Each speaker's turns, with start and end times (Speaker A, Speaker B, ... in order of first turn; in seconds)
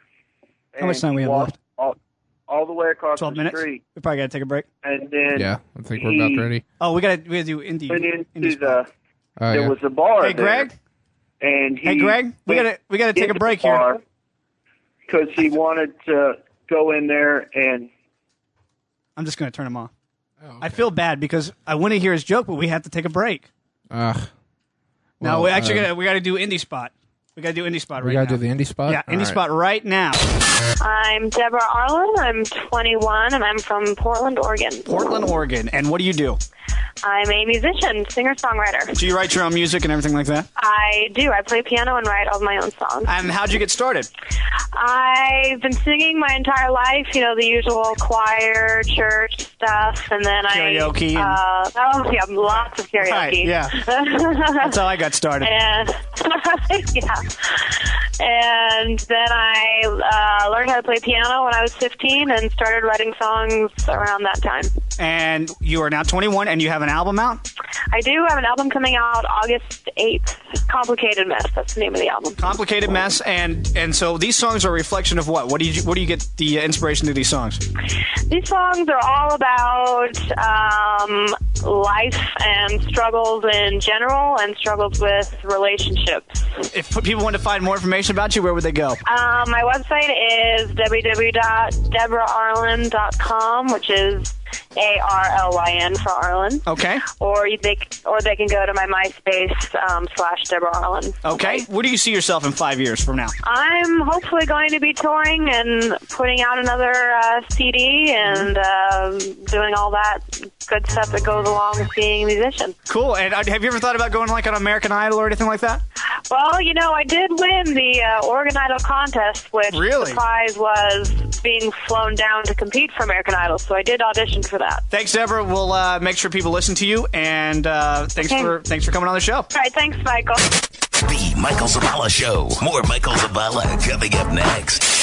Speaker A: 0.8-1.9, 2.5-3.8, 4.8-6.5, 7.9-8.9, 9.5-10.7, 11.4-14.0, 15.1-17.9
Speaker B: 0.8-1.6, 3.2-4.7, 6.8-8.8, 10.2-10.7, 11.8-14.0, 19.1-19.9, 20.6-23.5, 25.2-30.2, 34.9-36.4, 38.9-40.5, 43.0-44.1, 50.5-51.4, 53.0-53.8, 54.6-55.5, 65.0-67.5, 72.4-77.6, 86.7-89.0, 96.7-97.0, 101.2-103.3, 108.2-108.5, 112.9-115.8, 119.7-120.2, 124.9-129.5
Speaker C: 5.3-6.6, 9.4-9.8, 20.4-20.8, 23.9-24.3, 25.2-25.9, 28.0-29.4
Speaker D: 30.8-35.1, 37.0-39.0, 40.5-43.2, 44.7-54.9, 55.4-64.7, 67.9-72.4, 78.3-86.6, 89.0-101.6, 103.4-112.7, 116.3-124.8, 128.2-128.6, 129.5-130.4
Speaker E: 131.1-134.8